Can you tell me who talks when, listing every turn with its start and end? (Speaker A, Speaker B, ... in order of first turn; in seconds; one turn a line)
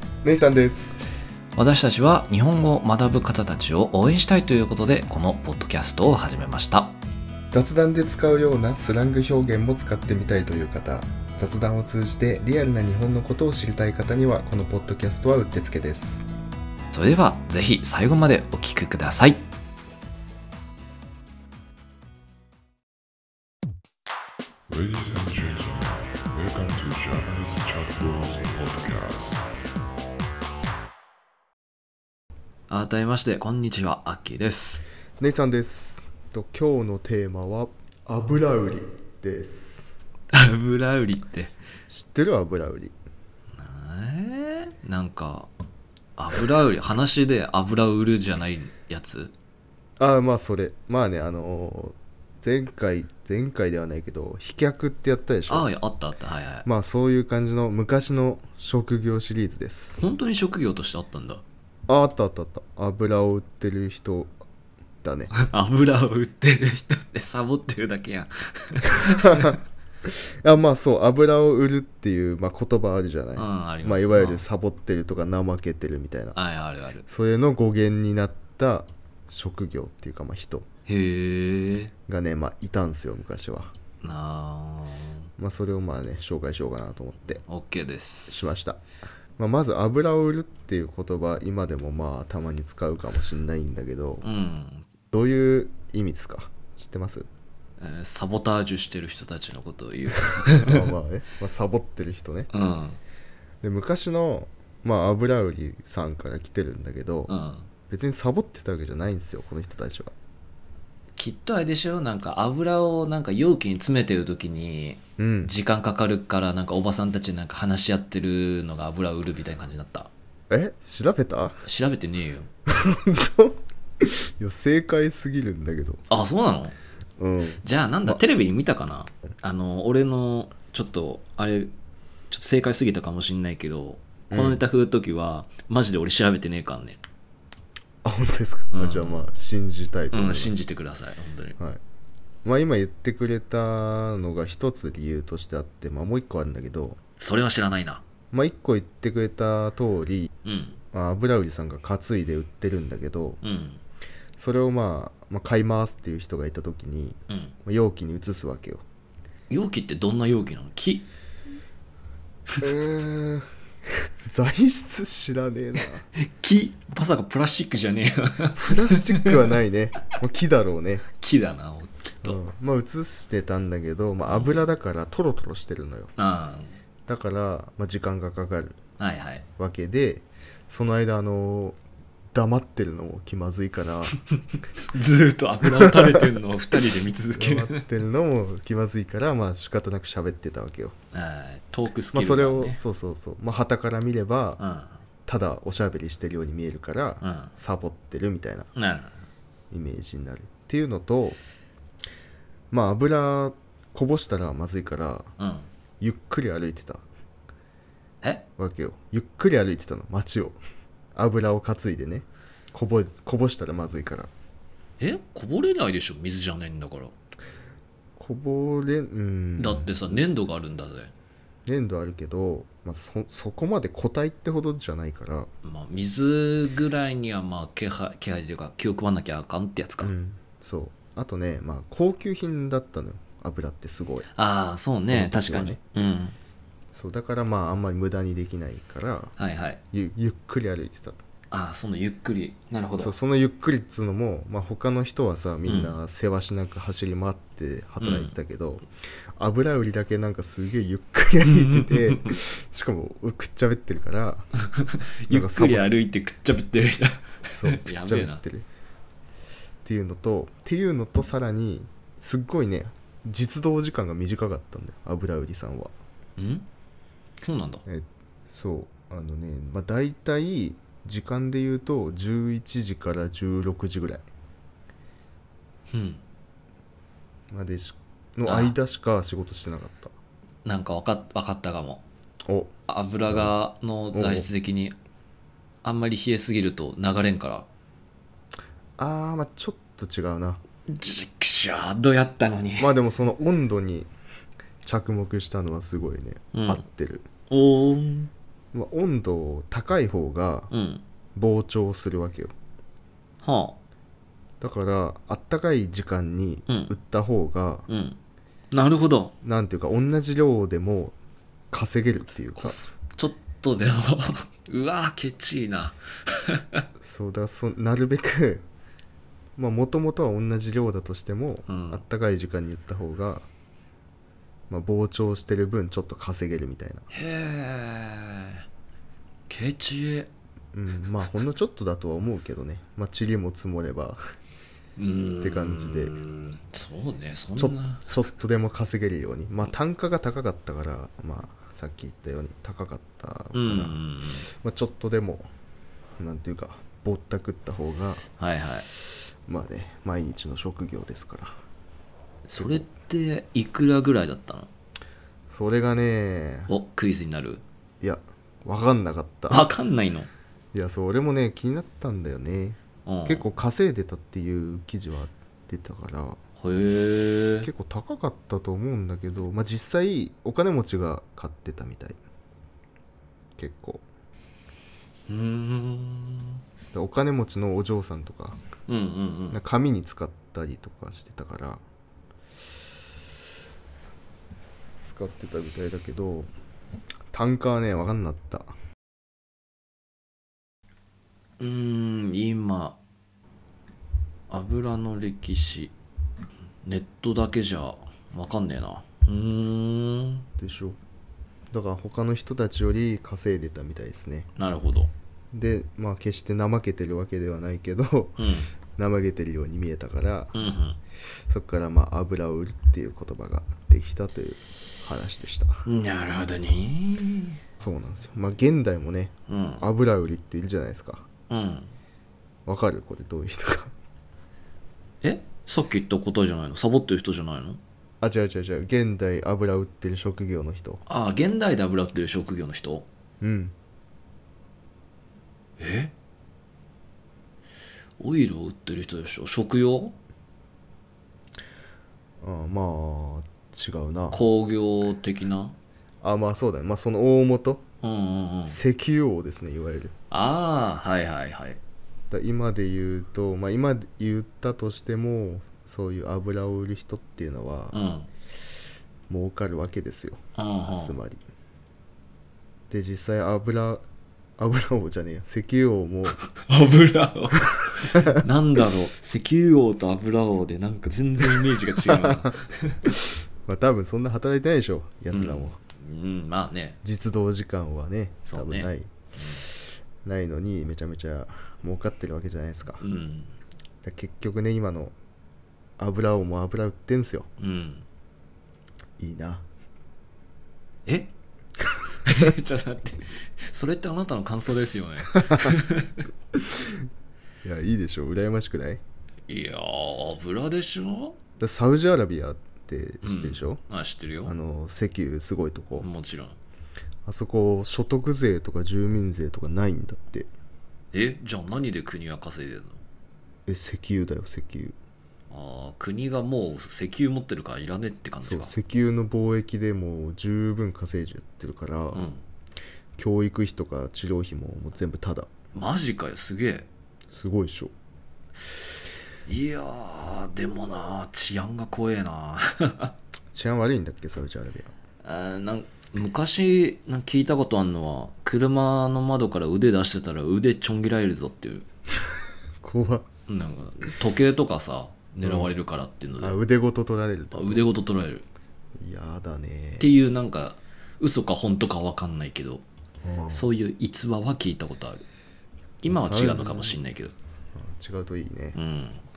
Speaker A: 0.2-1.0
Speaker B: 1.6-7.0
Speaker A: 7.5-16.3
Speaker B: 16.9-19.4
Speaker C: 24.7-29.5
Speaker B: 32.7-34.8
Speaker A: 35.2-39.9
Speaker B: 40.3-41.5
Speaker A: 41.9-42.9
Speaker B: 43.5-45.5
Speaker B: 46.2-49.3
Speaker A: 50.0-55.7
Speaker B: 55.5-56.7
Speaker A: 56.6-60.1
Speaker B: 60.0-61.4
Speaker A: 61.9-64.3
Speaker A: 65.0-65.3
Speaker B: 65.3-69.6
Speaker A: 69.3-76.4
Speaker B: 73.3-74.4
Speaker B: 76.3-77.0
Speaker A: 77.1-80.7
Speaker B: 80.9-81.9
Speaker A: 82.1-83.7
Speaker B: 84.0-85.3
Speaker A: 85.4-87.4
Speaker B: 87.5-88.5
Speaker A: 88.3-88.8
Speaker A: 89.4-94.2
Speaker B: 94.2-94.9
Speaker A: 95.1-97.3
Speaker B: 97.8-100.9
Speaker A: 100.6-102.5
Speaker B: 102.5-103.0
Speaker A: 103.6-107.3
Speaker B: 107.3-107.7
Speaker A: 107.9-110.1
Speaker B: 111.2-120.1
Speaker A: 115.2-115.5
Speaker A: 120.5-121.6
Speaker B: 121.6-122.5
Speaker A: 122.7-126.0
Speaker B: 126.1-126.7
Speaker A: 127.2-128.2
Speaker B: 127.6-131.7
Speaker B: 132.3-137.0
Speaker A: 134.3-134.6
Speaker A: 138.0-140.6
Speaker B: 138.7-139.2
Speaker B: 140.1-141.6
Speaker A: 142.4-147.0
Speaker B: 147.2-148.0
Speaker A: 148.3-150.3
Speaker B: 150.4-150.8
Speaker A: 150.9-153.4
Speaker B: 153.4-153.8
Speaker A: 154.4-158.8
Speaker B: 157.3-157.5
Speaker B: 159.5-161.1
Speaker A: 162.6-163.5
Speaker A: 164.3-166.1
Speaker B: 166.1-169.4
Speaker A: 168.6-171.1
Speaker B: 171.2-172.4
Speaker A: 172.2-176.1
Speaker B: 174.3-174.5
Speaker B: 176.2-176.8
Speaker A: 177.1-178.8
Speaker B: 179.0-179.4
Speaker A: 179.6-181.8
Speaker A: 182.3-184.2
Speaker B: 184.9-187.8
Speaker A: 185.8-186.3
Speaker A: 187.3-190.9
Speaker B: 191.1-192.8
Speaker A: 192.1-194.6
Speaker B: 194.6-195.0
Speaker A: 195.2-198.7
Speaker B: 197.2-197.5
Speaker B: 198.8-199.2
Speaker A: 199.7-201.4
Speaker A: 202.7-205.3
Speaker B: 205.4-205.7
Speaker A: 206.0-207.0
Speaker A: 208.6-210.6
Speaker A: 211.1-214.3
Speaker B: 215.0-217.1
Speaker A: 218.2-220.0
Speaker B: 219.6-221.1
Speaker A: 221.7-225.5
Speaker B: 225.6-230.1
Speaker A: 230.0-234.3
Speaker B: 234.3-236.3
Speaker A: 235.1-235.8
Speaker A: 236.9-239.3
Speaker B: 239.4-239.8
Speaker A: 239.9-241.2
Speaker B: 241.5-243.1
Speaker A: 243.0-254.5
Speaker B: 245.6-245.9
Speaker B: 248.0-248.3
Speaker B: 251.4-252.3
Speaker B: 254.7-258.4
Speaker A: 255.3-255.8
Speaker A: 257.4-258.7
Speaker A: 259.8-265.9
Speaker B: 266.4-266.6
Speaker B: 267.4-267.8
Speaker A: 267.9-274.2
Speaker B: 275.9-276.2
Speaker A: 277.5-280.1
Speaker B: 278.4-278.8
Speaker B: 280.6-282.0
Speaker A: 282.5-282.7
Speaker B: 282.9-284.9
Speaker A: 283.3-283.5
Speaker A: 284.1-284.5
Speaker B: 285.8-287.7
Speaker A: 289.0-290.6
Speaker B: 290.9-293.0
Speaker A: 292.8-294.1
Speaker A: 294.8-297.3
Speaker B: 296.5-296.8
Speaker B: 297.5-298.3
Speaker A: 298.7-300.7
Speaker B: 300.7-301.0
Speaker A: 301.4-302.5
Speaker B: 303.4-303.8
Speaker A: 304.6-307.9
Speaker B: 306.7-306.9
Speaker B: 307.9-308.2
Speaker B: 308.7-309.3
Speaker A: 309.4-311.1
Speaker A: 311.7-312.8
Speaker B: 312.5-316.8
Speaker A: 317.0-318.6
Speaker A: 319.6-323.5
Speaker B: 321.7-322.0
Speaker A: 324.7-327.1
Speaker B: 327.1-328.6
Speaker B: 329.5-330.3
Speaker A: 330.7-334.2
Speaker B: 334.9-338.2
Speaker A: 335.4-336.1
Speaker A: 337.6-344.0
Speaker B: 343.5-344.5
Speaker A: 344.6-345.5
Speaker A: 346.2-348.2
Speaker B: 348.4-348.9
Speaker A: 348.9-351.5
Speaker B: 352.4-354.7
Speaker A: 355.5-356.7
Speaker B: 356.7-357.6
Speaker A: 358.0-359.7
Speaker B: 359.5-360.3
Speaker A: 360.7-366.4
Speaker B: 363.0-363.4
Speaker B: 366.6-367.7
Speaker A: 367.6-372.2
Speaker A: 373.6-374.0
Speaker B: 375.3-376.6
Speaker A: 376.9-378.6
Speaker B: 378.9-379.6
Speaker A: 379.5-381.8
Speaker A: 385.0-386.5
Speaker A: 387.3-388.7
Speaker B: 391.6-393.0
Speaker B: 394.5-395.9
Speaker B: 396.8-400.4
Speaker A: 400.6-401.0
Speaker A: 401.7-404.5
Speaker B: 404.6-405.1
Speaker A: 405.5-408.4
Speaker B: 408.4-408.7
Speaker A: 409.0-410.6
Speaker B: 410.5-411.0
Speaker A: 411.5-415.8
Speaker B: 415.9-417.6
Speaker A: 417.8-421.2
Speaker B: 419.5-419.9
Speaker B: 421.5-421.9
Speaker A: 422.6-423.9
Speaker B: 425.2-427.8
Speaker A: 428.2-431.0
Speaker B: 431.1-433.1
Speaker A: 433.4-433.7
Speaker B: 435.8-436.1
Speaker B: 438.2-440.1
Speaker A: 442.4-444.4
Speaker B: 444.3-445.8
Speaker A: 446.2-447.8
Speaker B: 448.0-448.8
Speaker A: 448.7-450.1
Speaker B: 450.3-451.8
Speaker A: 452.3-457.9
Speaker B: 457.9-458.3
Speaker A: 459.3-460.4
Speaker B: 460.6-461.2
Speaker A: 460.9-461.4
Speaker A: 462.9-464.0
Speaker A: 464.6-466.4
Speaker B: 466.5-473.0
Speaker A: 472.1-472.5
Speaker A: 473.6-475.8
Speaker B: 475.3-477.0
Speaker A: 477.0-483.0
Speaker B: 478.5-479.6
Speaker B: 483.0-483.5
Speaker A: 484.0-485.1
Speaker A: 486.0-487.5
Speaker B: 487.6-488.0
Speaker A: 489.2-489.6
Speaker B: 491.1-491.3
Speaker B: 492.2-496.2
Speaker A: 492.3-492.5
Speaker A: 496.6-497.0
Speaker A: 497.6-499.0
Speaker B: 499.5-501.4
Speaker A: 501.6-503.8
Speaker B: 503.2-504.5
Speaker A: 504.4-506.1
Speaker B: 506.0-506.6
Speaker A: 507.2-510.5
Speaker B: 511.1-513.0
Speaker A: 513.7-515.0
Speaker B: 515.5-518.7
Speaker A: 518.4-522.2
Speaker B: 522.1-522.4
Speaker A: 523.2-525.5
Speaker B: 525.7-526.9
Speaker A: 527.3-527.9
Speaker B: 529.5-533.1
Speaker A: 533.5-534.9
Speaker B: 535.2-541.9
Speaker A: 542.8-543.2
Speaker B: 543.5-546.6
Speaker A: 545.4-545.7
Speaker A: 546.4-547.9
Speaker B: 547.5-548.4
Speaker A: 549.0-550.1
Speaker B: 550.0-552.8
Speaker A: 553.2-553.7
Speaker B: 553.5-555.2
Speaker B: 556.0-557.3
Speaker A: 556.1-557.0
Speaker A: 557.7-558.8
Speaker B: 558.7-559.2